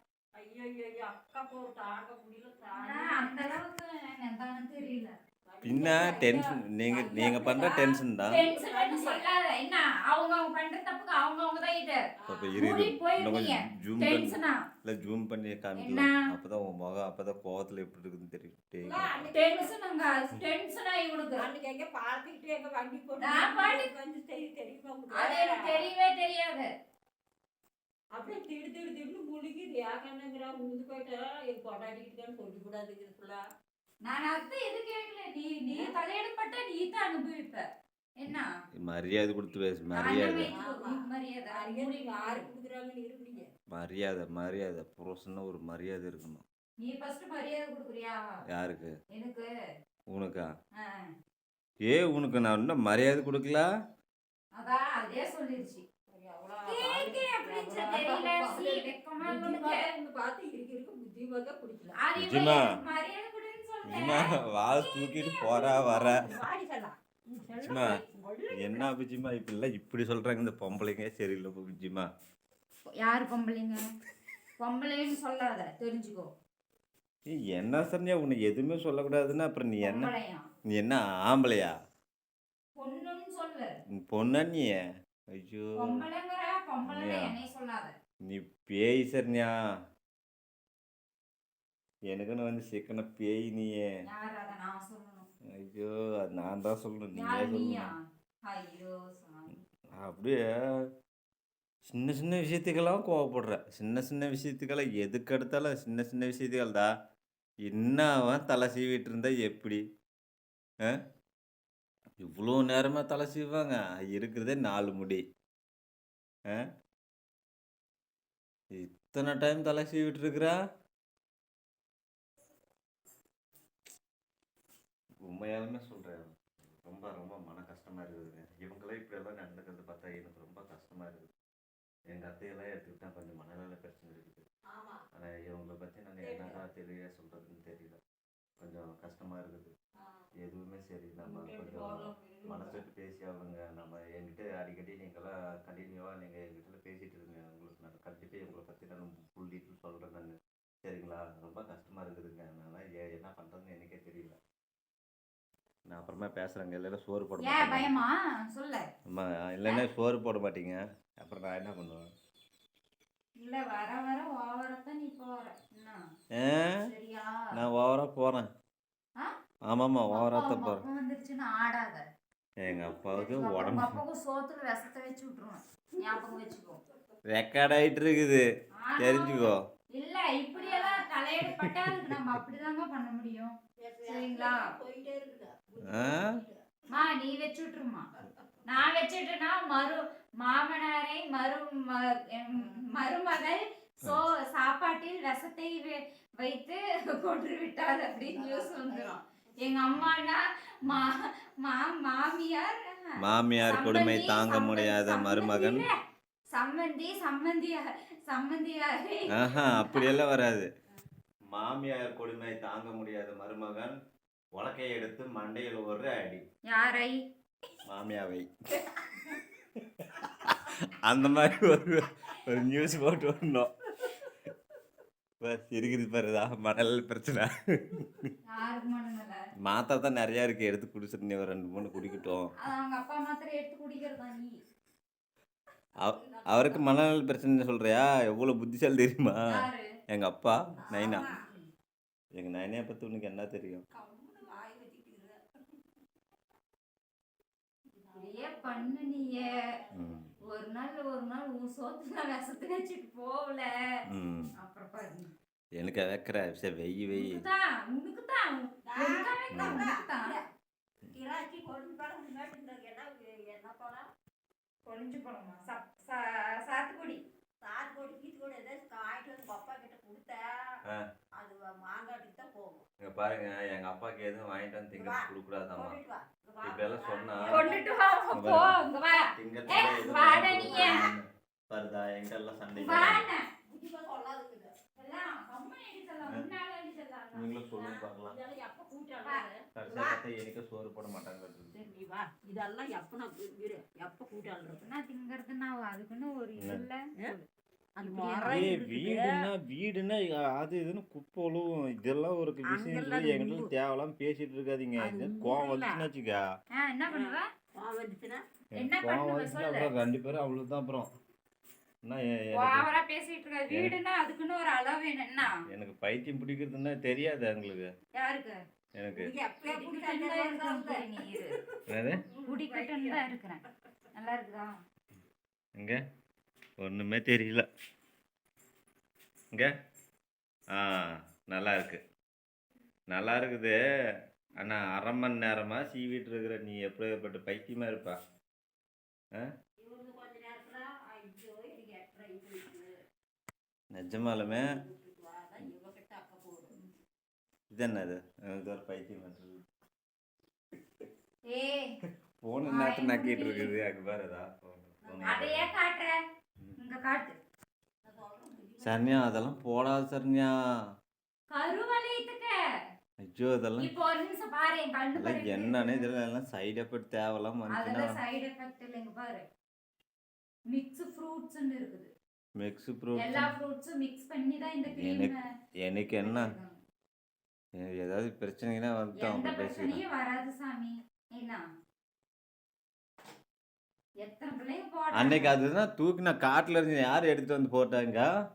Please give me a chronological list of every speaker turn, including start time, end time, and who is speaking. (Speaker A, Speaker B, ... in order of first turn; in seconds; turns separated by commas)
Speaker A: 0.4-3.4, Speaker B: 2.8-5.1, Speaker A: 5.5-9.3, Speaker C: 5.6-8.4, Speaker B: 8.3-12.0, Speaker A: 12.2-12.6, Speaker C: 12.3-19.3, Speaker B: 12.6-14.6, Speaker B: 15.8-16.2, Speaker A: 18.8-19.7, Speaker B: 19.3-21.4, Speaker A: 21.4-25.9, Speaker B: 23.2-23.9, Speaker B: 25.1-26.7, Speaker A: 28.1-33.4, Speaker B: 34.0-37.6, Speaker B: 38.2-38.5, Speaker C: 38.8-40.5, Speaker B: 39.9-42.5, Speaker A: 40.5-43.5, Speaker C: 43.7-46.4, Speaker B: 46.8-48.2, Speaker C: 48.5-48.9, Speaker B: 49.1-49.4, Speaker C: 50.1-50.5, Speaker C: 51.9-53.7, Speaker B: 54.6-55.8, Speaker A: 56.1-62.0, Speaker B: 56.6-59.9, Speaker B: 62.0-64.9, Speaker C: 62.1-62.7, Speaker C: 63.9-66.2, Speaker A: 65.1-68.9, Speaker B: 65.9-66.2, Speaker C: 67.6-68.0, Speaker C: 68.6-72.1, Speaker B: 73.0-73.8, Speaker B: 74.6-76.3, Speaker C: 77.3-80.1, Speaker B: 79.8-80.5, Speaker C: 80.7-81.7, Speaker B: 82.8-83.7, Speaker C: 84.0-84.8, Speaker C: 85.4-86.0, Speaker B: 85.8-87.9, Speaker C: 86.9-87.3, Speaker C: 88.3-89.5, Speaker C: 92.1-93.8, Speaker B: 94.0-95.3, Speaker C: 95.5-97.9, Speaker B: 97.1-99.5, Speaker C: 100.0-100.5, Speaker C: 101.9-106.9, Speaker C: 107.7-109.8, Speaker C: 112.2-115.2, Speaker C: 118.8-120.5, Speaker C: 125.2-131.3, Speaker C: 132.1-134.4, Speaker A: 134.7-135.0, Speaker C: 135.1-138.0, Speaker A: 136.2-136.6, Speaker C: 138.6-139.7, Speaker C: 140.4-154.4, Speaker A: 141.2-142.8, Speaker C: 155.9-158.0, Speaker B: 157.4-158.9, Speaker C: 159.1-162.0, Speaker B: 163.4-166.0, Speaker C: 166.4-166.8, Speaker B: 166.8-167.5, Speaker C: 167.5-168.5, Speaker C: 169.7-170.8, Speaker B: 170.1-172.0, Speaker C: 172.6-174.0, Speaker B: 173.1-176.8, Speaker A: 176.0-176.5, Speaker C: 177.3-178.4, Speaker B: 178.8-183.5, Speaker C: 179.0-179.6, Speaker A: 180.6-181.1, Speaker C: 181.4-182.2, Speaker A: 183.8-186.6, Speaker B: 184.1-184.6, Speaker C: 185.9-186.2, Speaker B: 186.9-188.1, Speaker B: 188.7-206.0, Speaker A: 192.6-192.9, Speaker A: 198.3-199.8, Speaker C: 203.2-205.8, Speaker B: 206.5-210.2, Speaker C: 209.3-210.7, Speaker C: 211.5-213.9, Speaker C: 214.5-216.4, Speaker B: 216.7-217.2, Speaker C: 217.9-218.5, Speaker C: 220.0-224.1, Speaker C: 225.4-228.2, Speaker B: 228.4-229.4, Speaker C: 229.7-232.5, Speaker B: 232.6-234.5, Speaker C: 236.0-239.4, Speaker A: 236.1-236.9, Speaker B: 239.5-239.9, Speaker C: 240.1-241.3, Speaker A: 240.8-241.4, Speaker C: 242.4-243.8, Speaker A: 243.9-245.8, Speaker A: 247.9-250.1, Speaker B: 248.2-249.7, Speaker C: 249.9-250.3, Speaker B: 250.5-253.7, Speaker C: 254.1-254.5, Speaker B: 254.6-255.3, Speaker C: 255.8-257.4, Speaker B: 257.1-260.3, Speaker A: 258.9-260.4, Speaker C: 259.5-259.9, Speaker A: 261.1-264.0, Speaker B: 264.9-267.2, Speaker A: 267.6-270.4, Speaker A: 271.4-272.8, Speaker C: 273.0-276.0, Speaker A: 274.9-277.9, Speaker C: 276.6-277.7, Speaker B: 277.4-281.1, Speaker C: 278.3-278.7, Speaker C: 279.4-283.2, Speaker A: 279.8-281.1, Speaker B: 282.7-283.4, Speaker A: 283.7-284.9, Speaker B: 284.9-287.6, Speaker C: 287.3-288.4, Speaker A: 287.8-290.2, Speaker C: 289.7-291.7, Speaker A: 291.7-294.9, Speaker B: 294.8-297.1, Speaker A: 297.2-297.5, Speaker A: 298.0-299.4, Speaker B: 298.0-298.8, Speaker C: 298.4-306.4, Speaker A: 302.6-303.7, Speaker A: 305.0-306.0, Speaker B: 306.7-307.5, Speaker A: 307.1-308.4, Speaker B: 308.7-309.9, Speaker C: 308.8-311.1, Speaker C: 312.1-312.9, Speaker B: 312.5-315.5, Speaker C: 313.7-313.9, Speaker C: 315.4-317.9, Speaker B: 318.2-318.6, Speaker C: 319.0-319.3, Speaker A: 319.1-323.3, Speaker B: 319.6-321.6, Speaker C: 321.9-322.2, Speaker B: 322.4-324.8, Speaker C: 326.8-327.6, Speaker C: 330.8-332.0, Speaker C: 333.1-333.8, Speaker C: 334.6-338.2, Speaker A: 339.8-342.9, Speaker C: 343.9-344.6, Speaker A: 344.4-346.7, Speaker C: 347.7-349.6, Speaker B: 351.5-351.9, Speaker C: 352.4-355.7, Speaker B: 352.7-353.8, Speaker A: 355.0-355.6, Speaker B: 355.2-356.2, Speaker B: 356.8-357.3, Speaker A: 358.0-359.6, Speaker C: 358.8-360.5, Speaker B: 361.5-362.5, Speaker C: 363.2-363.9, Speaker B: 363.8-366.1, Speaker C: 365.1-368.1, Speaker B: 367.7-369.4, Speaker B: 370.7-372.1, Speaker C: 372.6-373.5, Speaker B: 373.2-375.4, Speaker C: 374.9-376.5, Speaker B: 376.2-376.8, Speaker C: 377.8-380.0, Speaker B: 379.2-381.6, Speaker B: 384.2-385.6, Speaker C: 385.1-388.3